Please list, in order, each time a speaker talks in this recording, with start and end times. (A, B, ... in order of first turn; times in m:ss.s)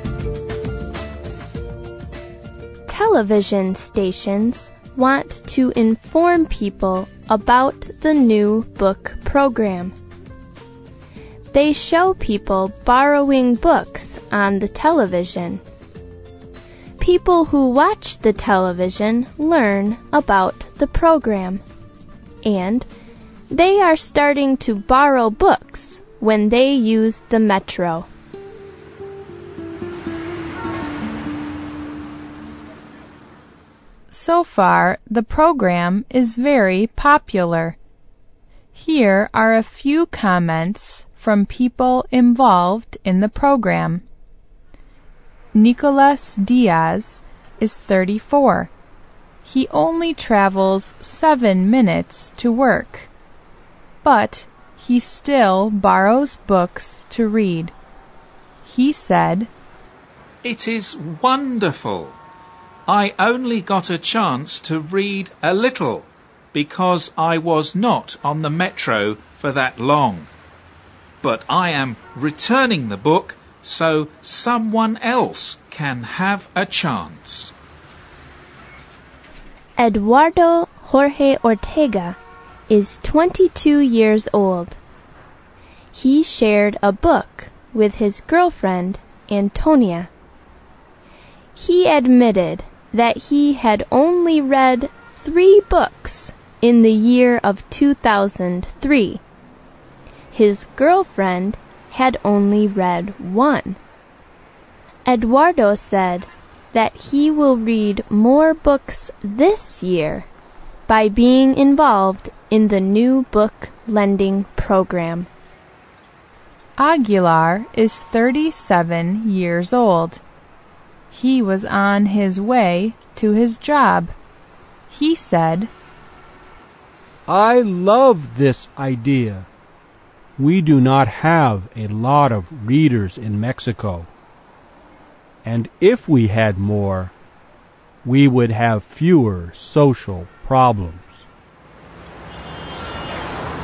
0:02.9-0:09.9 A
0:11.5-0:15.6 A
0:17.0-0:21.6 A
0:22.4-0:22.9 A
0:23.5-0:28.1 A
0:34.1-0:37.8 B
0:38.7-0:44.0 B
0:45.5-0:48.7 B
0:49.4-0:53.1 B
0:54.0-0:57.7 B
0:58.6-0:59.5 B
1:00.4-1:02.2 C
1:02.9-1:10.3 C
1:11.2-1:17.5 C
1:19.8-1:22.2 A
1:22.7-1:24.8 A
1:25.9-1:30.1 A
1:31.5-1:39.2 A
1:40.3-1:43.8 A
1:45.0-1:50.3 A
1:50.9-1:55.3 A
1:56.8-2:00.2 B
2:01.1-2:04.1 B
2:04.9-2:05.7 B
2:07.3-2:09.5 D
2:10.4-2:14.1 D
2:15.4-2:17.1 D
2:18.0-2:21.2 D